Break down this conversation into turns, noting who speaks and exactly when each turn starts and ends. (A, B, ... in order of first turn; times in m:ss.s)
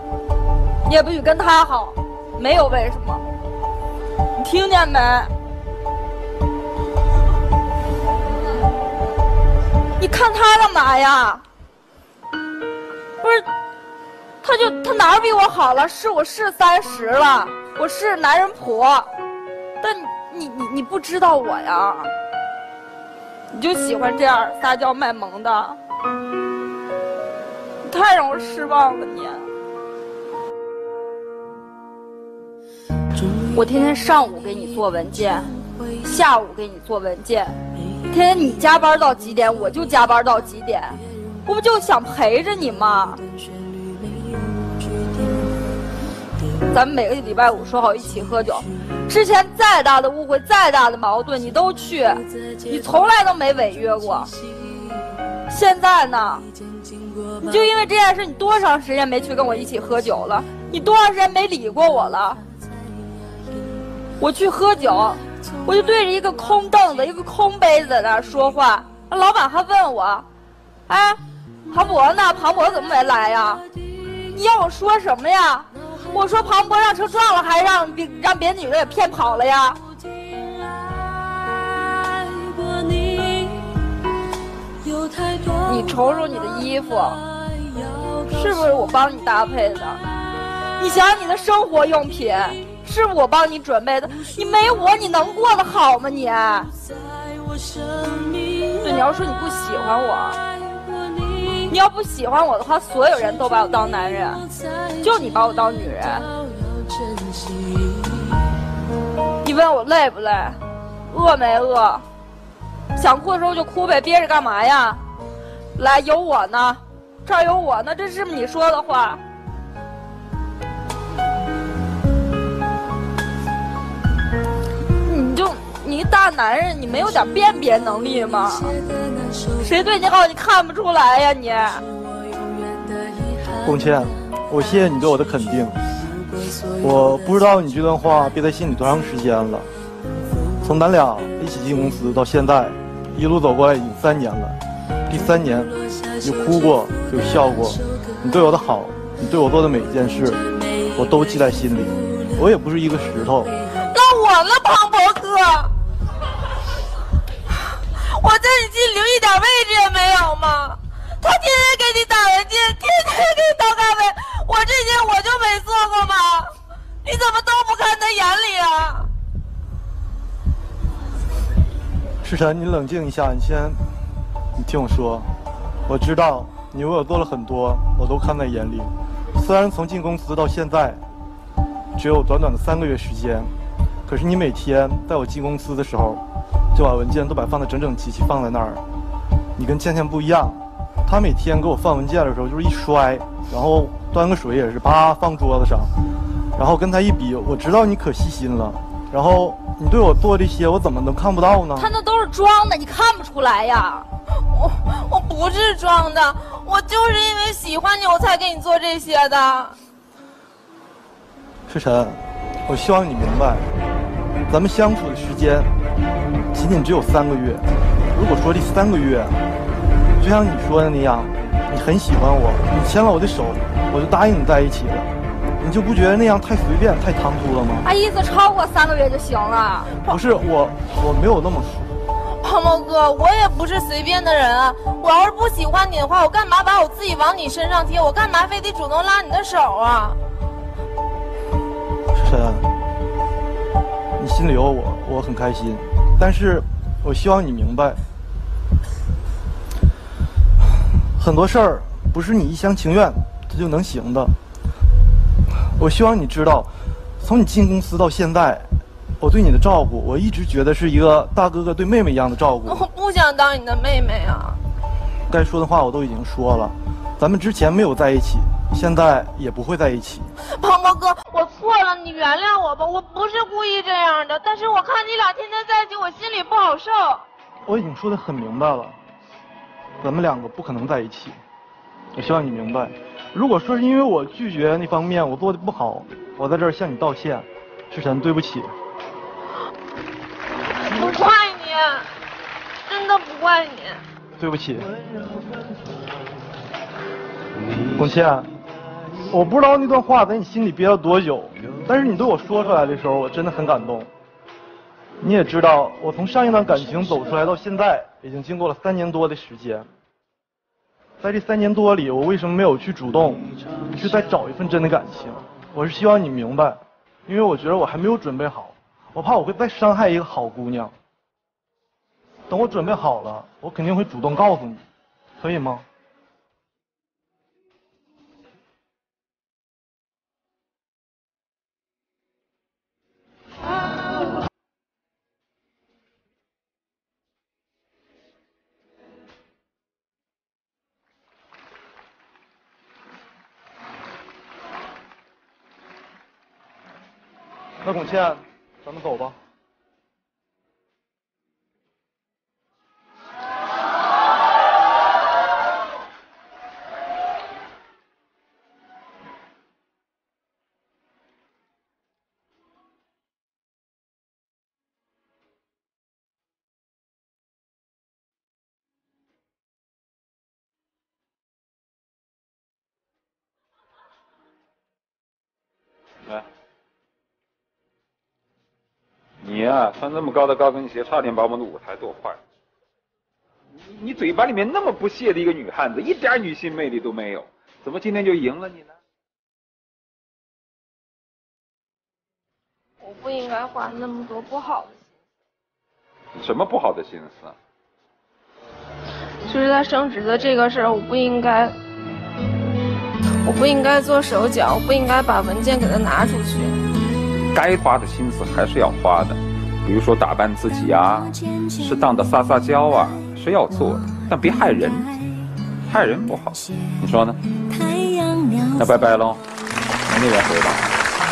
0:00.8-0:03.2 A
0:04.4-0:05.3 A
0:10.0-0:11.4 A
0:13.2-0:13.5 A
0:14.4-0:19.1 A
0:19.8-0:22.1 A
0:23.5-0:25.8 A
0:27.8-0:29.5 A
0:33.5-0:37.6 A
0:38.1-0:43.2 A
0:46.7-0:54.3 A
0:55.5-0:56.4 A
0:57.4-1:02.4 A
1:04.2-1:10.3 A
1:10.9-1:19.8 A
1:25.4-1:27.2 A
1:28.3-1:30.0 A
1:30.8-1:36.7 A
1:38.3-1:40.4 A
1:41.6-1:44.4 A
1:45.0-1:46.3 A
1:49.4-1:52.0 A
1:52.9-1:55.0 A
1:55.8-1:59.2 A
2:05.0-2:08.8 A
2:09.6-2:11.8 A
2:13.6-2:15.8 B
2:16.8-2:19.7 B
2:20.6-2:30.4 B
2:31.0-2:33.5 B
2:33.9-2:35.7 C
2:37.9-2:46.5 C
2:47.0-2:49.1 C
2:52.2-2:53.8 B
2:54.6-2:55.3 B
2:55.9-3:01.0 B
3:02.0-3:03.5 B
3:04.1-3:06.2 B
3:06.7-3:08.8 B
3:09.6-3:15.9 B
3:16.6-3:21.9 B
3:21.8-3:24.1 A
3:24.5-3:29.8 C
3:31.7-3:33.7 B
3:34.5-3:35.7 B
3:36.5-3:39.4 B
3:40.2-3:45.1 B
3:45.6-3:47.8 B
3:47.8-3:49.9 A
3:50.1-3:51.9 B
3:52.4-4:00.2 C
4:02.1-4:02.7 B
4:04.2-4:08.0 B
4:11.2-4:14.4 B
4:15.8-4:16.7 B
4:17.2-4:18.7 B
4:19.2-4:22.8 B
4:22.7-4:24.6 C
4:25.3-4:30.3 B
4:30.6-4:37.2 C
4:37.6-4:39.0 B
4:40.0-4:41.4 B
4:42.2-4:48.7 B
4:50.9-4:52.0 C
4:52.9-4:54.0 C
4:54.4-4:54.9 B
4:57.9-4:58.5 B
4:59.3-5:04.1 B
5:05.2-5:09.9 B
5:11.2-5:20.9 B
5:22.5-5:24.8 B
5:25.4-5:25.8 B
5:47.8-5:49.4 B
6:19.4-6:22.4 D
6:23.9-6:28.9 D
6:33.0-6:35.0 C
6:36.4-6:37.6 D
6:39.5-6:41.8 C
6:43.4-6:46.8 C
6:47.5-6:55.2 D
6:55.8-6:57.4 D
6:58.8-6:59.4 D
7:00.1-7:00.9 D